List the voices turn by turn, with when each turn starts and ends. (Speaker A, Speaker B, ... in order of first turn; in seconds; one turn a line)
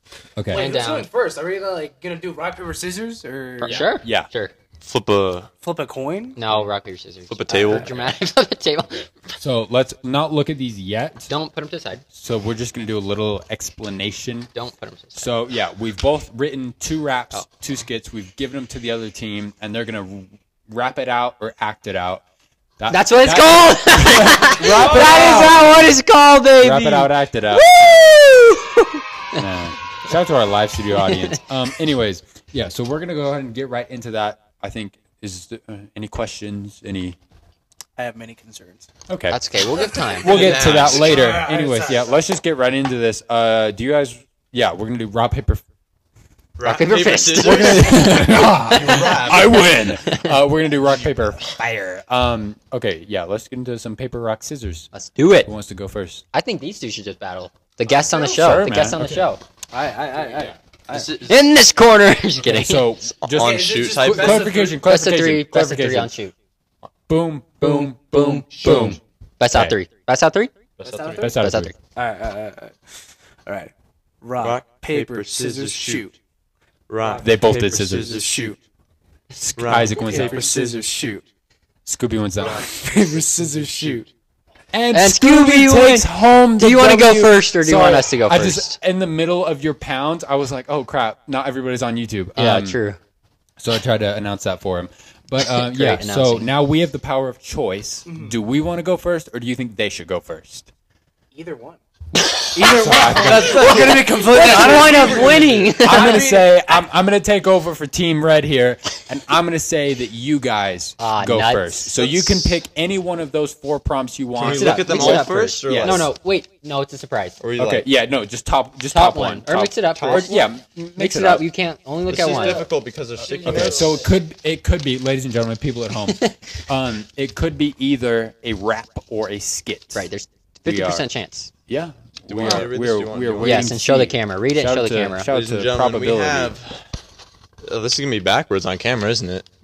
Speaker A: 0.4-0.7
Speaker B: 0.5-1.1
Speaker C: 0.5-3.9
Speaker B: 3.6-4.5
Speaker A: 3.7-4.3
Speaker D: 4.8-5.5
Speaker C: 5.6-6.4
Speaker B: 6.4-9.1
Speaker D: 7.3-8.1
Speaker C: 7.5-7.8
Speaker A: 9.4-11.3
Speaker B: 11.3-12.0
Speaker A: 12.1-14.5
Speaker B: 14.6-15.3
Speaker A: 15.2-22.2
Speaker A: 22.8-25.9
Speaker B: 22.9-29.4
Speaker C: 25.2-25.5
Speaker A: 26.6-28.1
Speaker A: 29.4-37.2
Speaker B: 31.0-31.4
Speaker C: 38.0-38.9
Speaker A: 39.1-45.6
Speaker B: 39.3-41.0
Speaker D: 40.2-41.3
Speaker C: 40.7-42.2
Speaker D: 46.6-49.7
Speaker B: 46.6-49.1
Speaker A: 47.4-54.9
Speaker B: 50.0-50.3
Speaker B: 54.9-55.5
Speaker A: 55.4-56.2
Speaker B: 56.3-59.4
Speaker A: 58.1-59.2
Speaker C: 59.7-61.1
Speaker D: 60.9-61.5
Speaker B: 61.3-62.9
Speaker A: 62.4-66.1
Speaker D: 63.2-64.6
Speaker C: 63.4-64.8
Speaker B: 64.8-66.3
Speaker A: 67.1-69.0
Speaker B: 67.6-70.5
Speaker D: 68.6-69.0
Speaker D: 70.8-71.3
Speaker C: 70.8-71.3
Speaker A: 71.2-71.7
Speaker B: 71.4-71.7
Speaker C: 72.0-72.8
Speaker C: 73.5-76.2
Speaker D: 74.4-76.1
Speaker D: 76.9-78.5
Speaker C: 77.0-78.6
Speaker A: 77.2-78.2
Speaker A: 79.4-80.8
Speaker D: 79.6-80.8
Speaker C: 79.9-81.2
Speaker A: 81.9-82.7
Speaker C: 82.4-84.1
Speaker D: 83.4-84.1
Speaker A: 84.7-92.8
Speaker B: 84.9-88.8
Speaker B: 92.4-93.0
Speaker A: 93.6-100.7
Speaker B: 95.6-96.5
Speaker C: 98.1-98.4
Speaker C: 101.3-101.8
Speaker B: 102.3-106.3
Speaker C: 102.5-106.7
Speaker A: 102.6-116.1
Speaker B: 111.0-111.9
Speaker C: 112.0-112.3
Speaker D: 114.4-116.1
Speaker B: 114.5-117.4
Speaker D: 117.4-117.8
Speaker A: 117.6-121.5
Speaker B: 118.9-120.4
Speaker B: 121.0-122.6
Speaker D: 122.1-124.0
Speaker C: 122.2-122.6
Speaker C: 123.2-124.1
Speaker A: 123.5-130.1
Speaker B: 129.9-131.5
Speaker A: 130.7-131.1
Speaker A: 131.7-136.6
Speaker D: 132.2-133.8
Speaker B: 132.4-132.7
Speaker B: 133.4-135.3
Speaker D: 135.3-136.8
Speaker D: 137.7-139.5